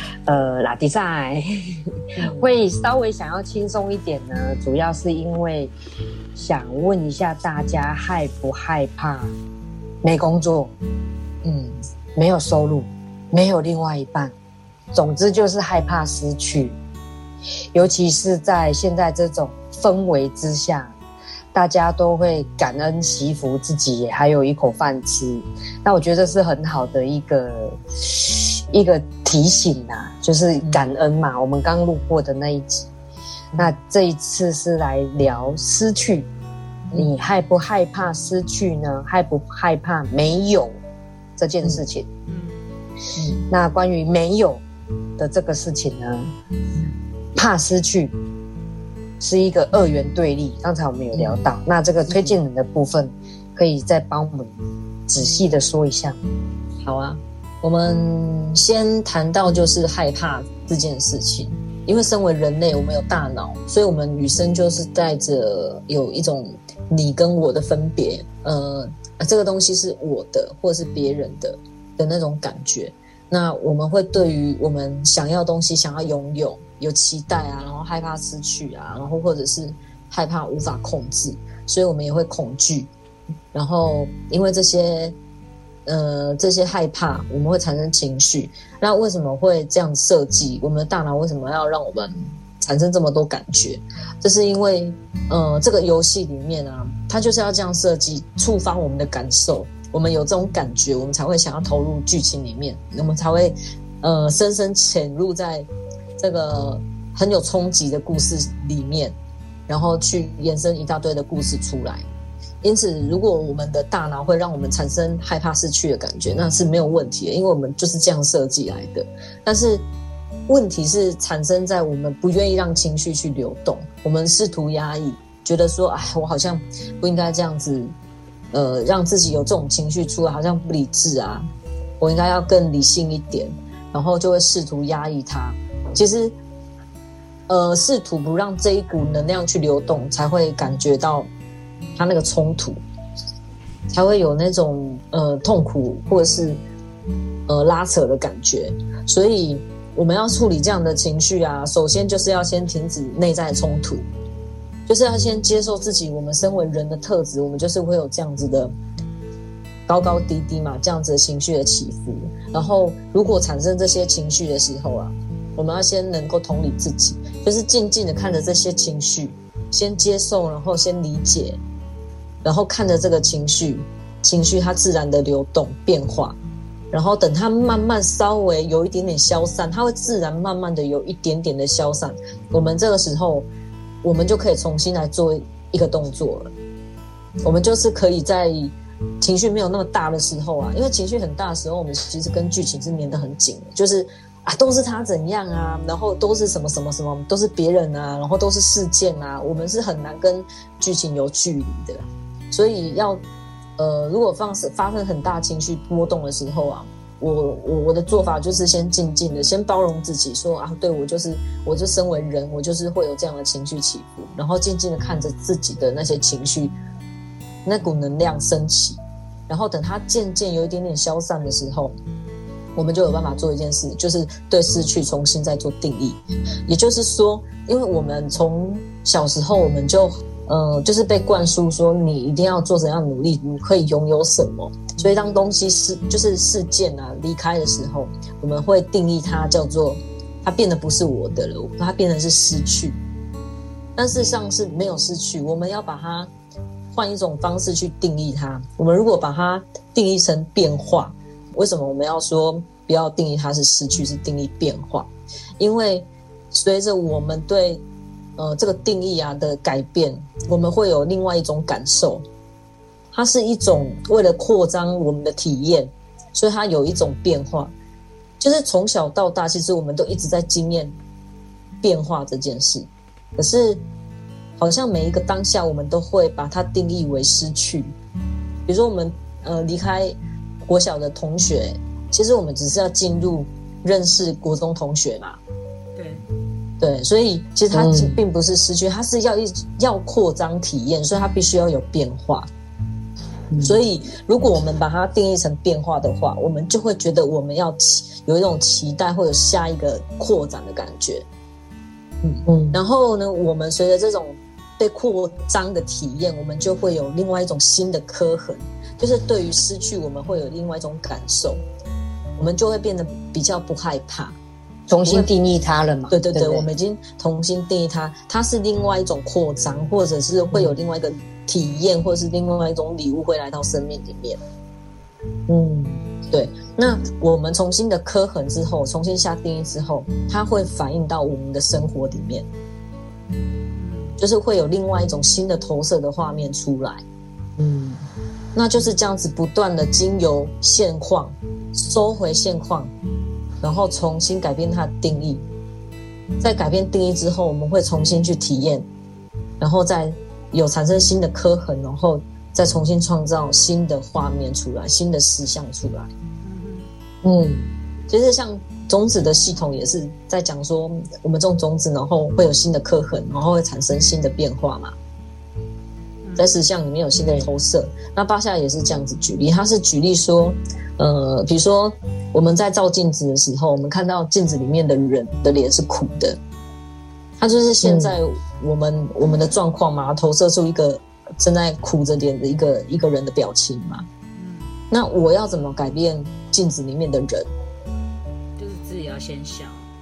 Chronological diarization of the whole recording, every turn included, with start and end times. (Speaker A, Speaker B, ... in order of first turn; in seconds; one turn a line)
Speaker A: 0.3-1.5
Speaker B: 2.2-2.5
Speaker A: 2.3-5.7
Speaker A: 6.3-9.3
Speaker A: 10.0-10.7
Speaker B: 11.4-11.8
Speaker A: 12.2-14.3
Speaker A: 14.9-16.8
Speaker A: 17.7-20.9
Speaker A: 21.5-32.9
Speaker A: 33.5-36.3
Speaker A: 36.9-40.8
Speaker A: 41.4-42.0
Speaker C: 42.3-42.6
Speaker B: 43.1-43.4
Speaker A: 43.5-44.6
Speaker A: 45.2-46.3
Speaker A: 47.4-48.1
Speaker A: 49.2-54.5
Speaker B: 51.1-51.4
Speaker B: 52.1-52.4
Speaker A: 55.1-56.2
Speaker B: 56.8-82.9
Speaker B: 83.5-85.2
Speaker B: 85.8-109.2
Speaker B: 109.7-112.0
Speaker B: 112.6-119.8
Speaker B: 120.5-127.9
Speaker B: 128.5-131.5
Speaker B: 132.0-136.3
Speaker B: 137.5-141.3
Speaker B: 141.9-142.8
Speaker B: 143.9-146.6
Speaker B: 147.5-154.1
Speaker B: 154.9-158.7
Speaker B: 159.9-171.6
Speaker B: 172.4-176.4
Speaker B: 176.9-183.5
Speaker B: 184.0-186.5
Speaker B: 187.4-203.2
Speaker B: 203.8-216.8
Speaker B: 217.6-222.0
Speaker B: 222.8-243.0
Speaker B: 244.0-246.3
Speaker B: 246.9-257.8
Speaker B: 258.4-262.2
Speaker B: 263.1-267.7
Speaker B: 268.4-270.9
Speaker B: 271.8-273.8
Speaker B: 274.6-277.9
Speaker B: 278.6-285.4
Speaker C: 285.9-286.2
Speaker B: 286.8-292.5
Speaker A: 287.7-288.2
Speaker A: 293.5-293.8
Speaker B: 293.6-301.2
Speaker B: 302.2-311.6
Speaker A: 302.5-302.8
Speaker B: 312.4-314.4
Speaker A: 314.9-316.7
Speaker B: 315.0-315.3
Speaker B: 316.1-324.4
Speaker A: 325.5-326.0
Speaker B: 326.3-332.5
Speaker C: 333.7-334.2
Speaker B: 334.2-337.0
Speaker A: 337.6-338.0
Speaker B: 338.5-342.9
Speaker B: 343.6-345.4
Speaker B: 346.4-348.9
Speaker B: 349.6-356.1
Speaker C: 356.4-356.9
Speaker A: 357.2-357.6
Speaker B: 358.1-364.9
Speaker C: 366.2-366.5
Speaker B: 366.4-376.4
Speaker B: 377.4-384.1
Speaker A: 377.8-378.2
Speaker C: 384.3-384.7
Speaker B: 384.9-387.5
Speaker C: 388.6-389.9